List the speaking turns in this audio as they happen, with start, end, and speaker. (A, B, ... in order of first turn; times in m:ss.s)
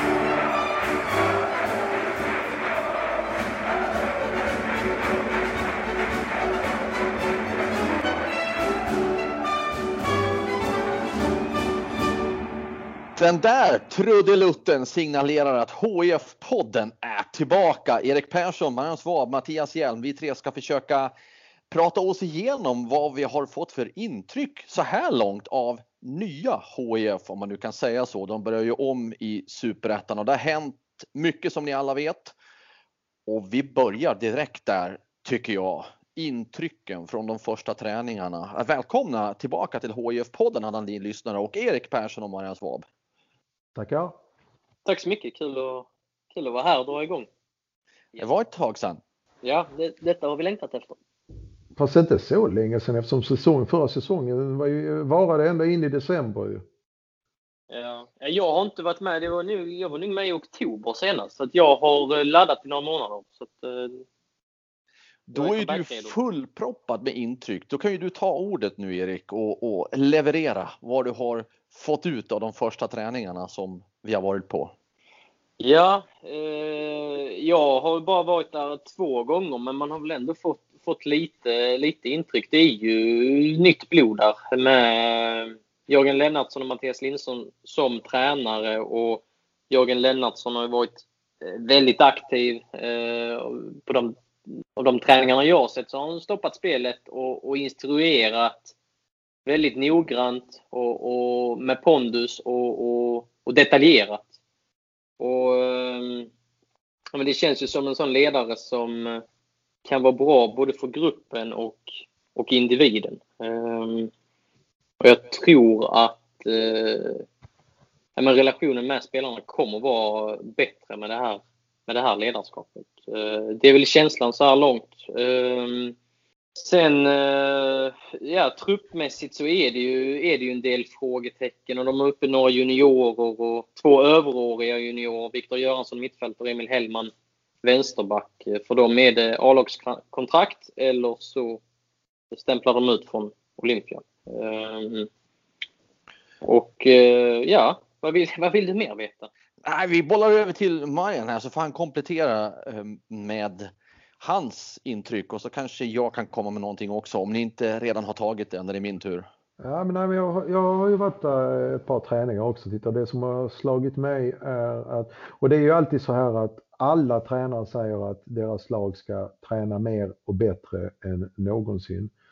0:13.2-0:21.1 A
0:21.7-0:32.3 A
0:33.3-0:42.8 A
0:43.7-0:44.2 B
0:44.8-0:47.3 C
0:48.2-0:49.0 A
0:49.4-0:51.0 C
0:51.7-0:56.6 B
0:57.7-1:04.0 C
1:05.3-1:14.7 A
1:05.3-1:06.2 C
1:15.6-1:34.1 C
1:34.8-1:38.7 C
1:39.4-1:44.3 C
1:45.2-1:46.3 C
1:47.1-1:49.2 C
1:49.8-1:54.1 C
1:55.0-1:57.2 C
1:58.2-2:05.9 C
2:06.6-2:17.1 C
2:17.6-2:21.6 C
2:22.3-2:25.1 C
2:26.4-2:29.3 C
2:29.6-2:39.3 A
2:39.6-2:52.1 B